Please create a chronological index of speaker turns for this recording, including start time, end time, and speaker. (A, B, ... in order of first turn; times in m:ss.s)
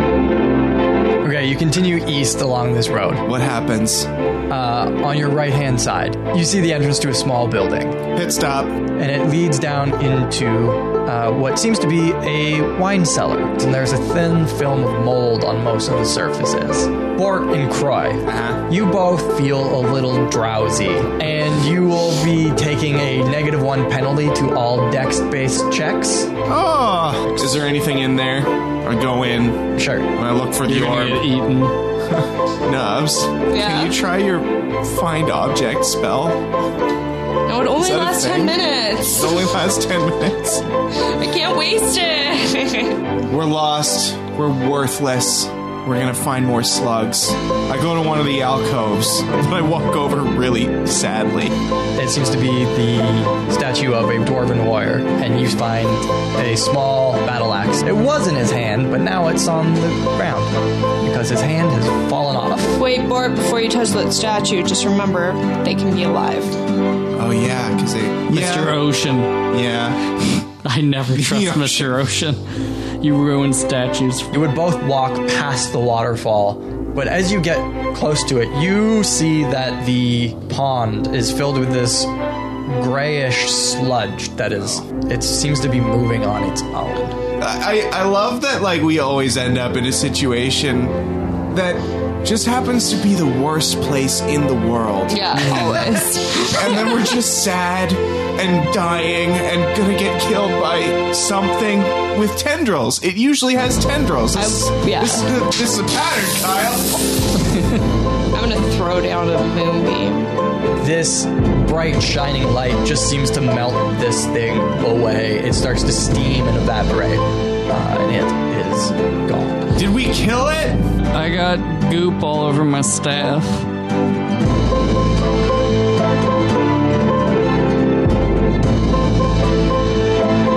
0:01.2-0:03.2 A
0:03.2-0:04.1 B
0:04.5-0:08.0 A
0:08.1-0:08.8 B
0:09.0-0:26.3 A
0:18.2-0:18.6 B
0:26.4-0:31.2 B
0:29.8-0:30.1 A
0:30.6-0:31.8 C
0:32.1-0:36.4 B
0:33.5-0:34.0 D
0:37.4-0:39.5 D
0:37.8-0:40.6 B
0:41.0-0:43.1 D
0:43.3-0:51.6 B
0:52.0-1:02.6 A
1:02.5-1:06.6 D
1:07.2-1:08.8 B
1:08.3-1:09.4 C
1:09.5-1:10.1 B
1:10.6-1:14.3 C
1:11.1-1:12.0 B
1:14.3-1:22.1 A
1:22.6-1:27.2 A
1:24.5-1:24.8 B
1:27.4-1:47.1 B
1:35.1-1:37.2 D
1:44.3-1:45.3 D
1:48.3-1:50.3 D
1:50.8-1:59.7 A
1:59.7-2:00.8 B
2:01.1-2:03.7 C